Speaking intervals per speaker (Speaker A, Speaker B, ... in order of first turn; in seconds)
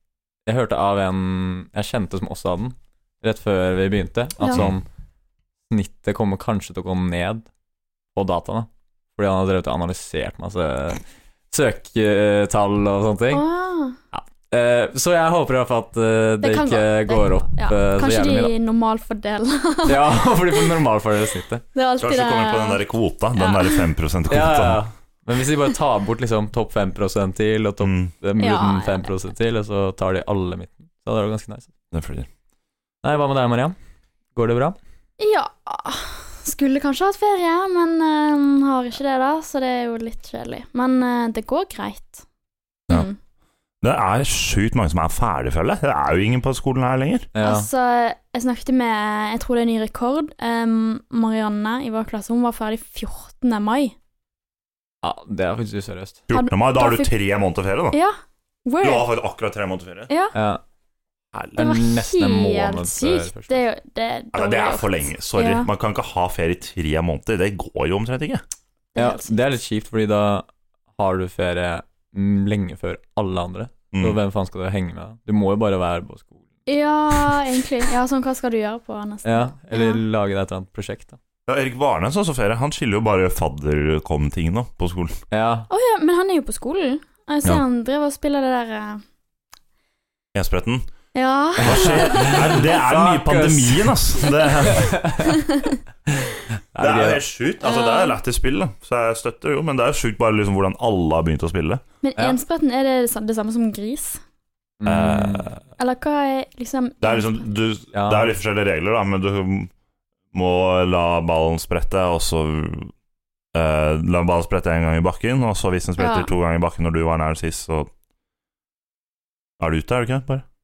Speaker A: 0.5-4.8, 5.7-7.5, 8.2-13.4, 14.1-18.5, 19.9-21.6, 24.3-31.7, 33.0-33.8, 34.4-34.8, 47.4-47.7, 55.0-56.2, 60.3-60.6, 61.6-63.6, 69.0-76.4, 79.2-81.2, 85.3-85.7, 91.6-94.0, 94.7-95.4, 96.7-97.2, 104.8-105.6, 107.9-108.3
Speaker B: 13.3-14.0, 16.4-20.6, 21.8-23.9, 28.4-29.1, 35.2-42.2, 42.9-43.1, 47.4-54.0, 56.3-57.1, 57.9-59.1, 60.1-60.3, 61.6-65.7, 69.0-69.4, 76.7-80.0, 85.7-89.0, 91.2-92.6, 97.6-98.2, 102.0-104.2, 105.8-107.5, 116.0-116.3
Speaker C: 22.0-24.8, 27.8-28.1, 31.9-32.3, 43.8-47.3, 56.3-58.0, 58.8-60.1, 61.3-61.6, 64.3-68.4, 73.9-74.2, 81.5-85.2, 90.3-90.9, 91.6-95.0, 96.8-101.8, 104.8-105.6, 107.0-109.7, 110.3-112.9, 113.5-117.9, 119.6-120.5